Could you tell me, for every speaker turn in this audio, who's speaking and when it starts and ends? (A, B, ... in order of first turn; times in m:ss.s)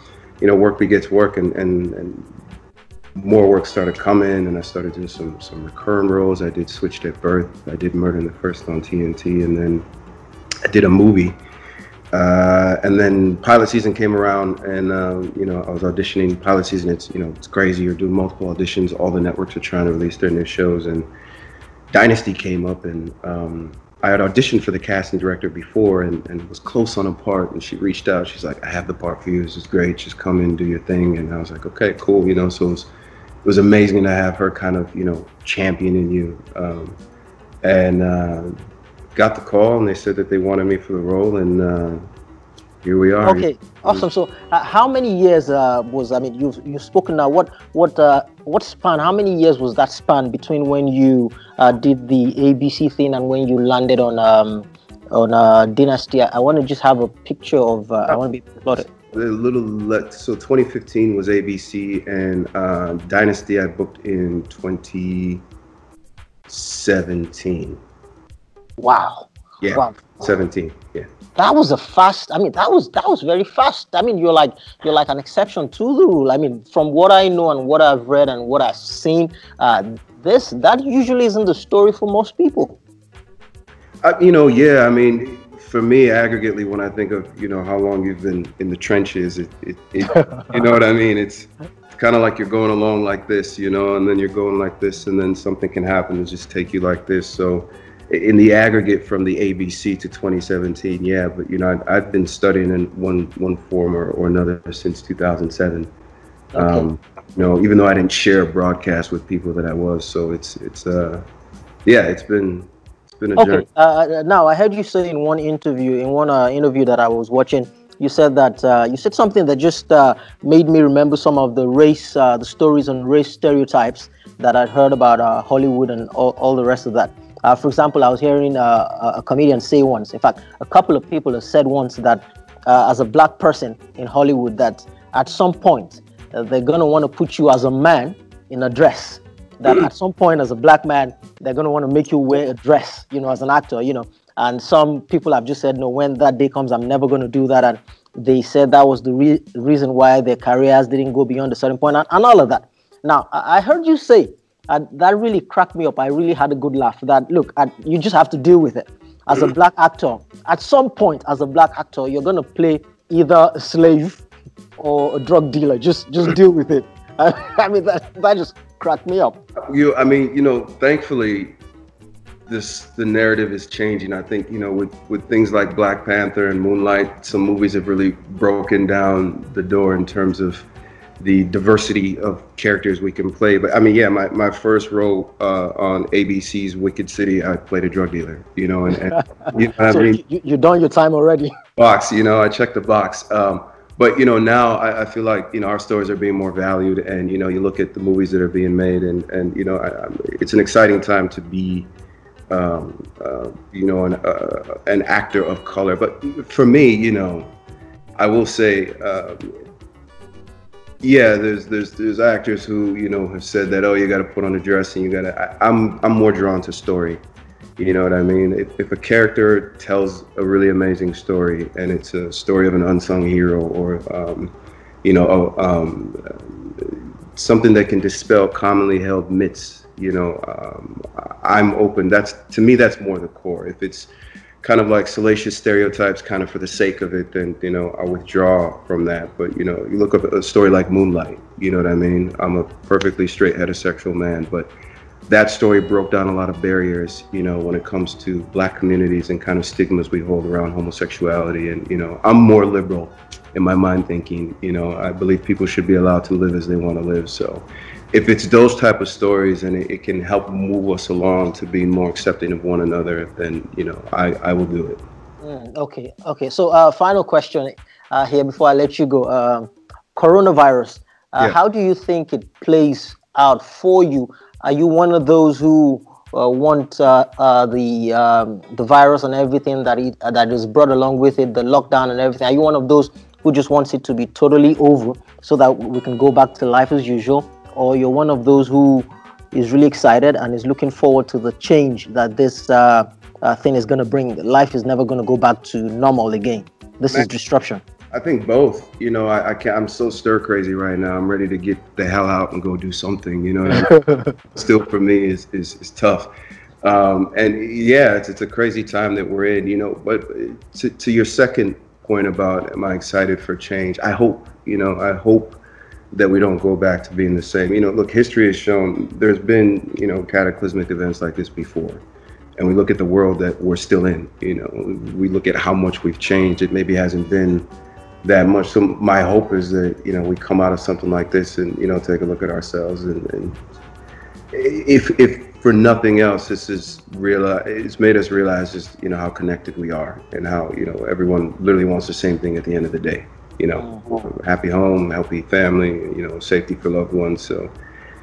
0:00.4-0:02.3 A
0:03.2-0:09.9 A
0:10.7-0:11.4 A
0:12.1-0:21.1 A
0:21.9-0:32.9 A
0:33.4-0:37.0 A
0:37.6-0:38.5 A
0:39.2-0:42.0 A
0:42.8-0:44.1 A
0:43.2-0:58.9 B
0:59.0-1:05.4 A
1:06.5-1:07.8 A
1:08.8-1:10.0 B
1:09.6-1:11.1 A
1:11.4-1:22.8 B
1:24.0-1:45.9 A
1:30.1-1:30.5 B
1:46.5-1:46.9 B
1:46.6-1:51.2 A
1:51.8-1:53.7 A
1:53.4-2:44.2 B
2:44.8-2:49.4 B
2:49.7-2:51.6 A
2:52.5-3:00.7 A
3:01.2-3:10.2 A
3:09.1-3:11.5 B
3:11.8-3:21.9 A
3:22.5-3:27.5 A
3:28.2-3:29.6 A
3:31.0-3:37.2 A
3:37.8-3:44.5 A
3:45.0-3:54.1 A
3:54.6-4:04.7 A
4:05.3-4:25.0 A
4:25.4-4:57.8 B
4:58.1-5:03.9 A
5:03.7-5:04.3 B
5:04.5-5:06.3 A
5:06.8-5:15.6 A
5:16.1-5:22.0 A
5:22.6-5:27.7 A
5:28.2-5:33.6 A
5:34.5-5:47.7 A
5:43.8-5:44.2 B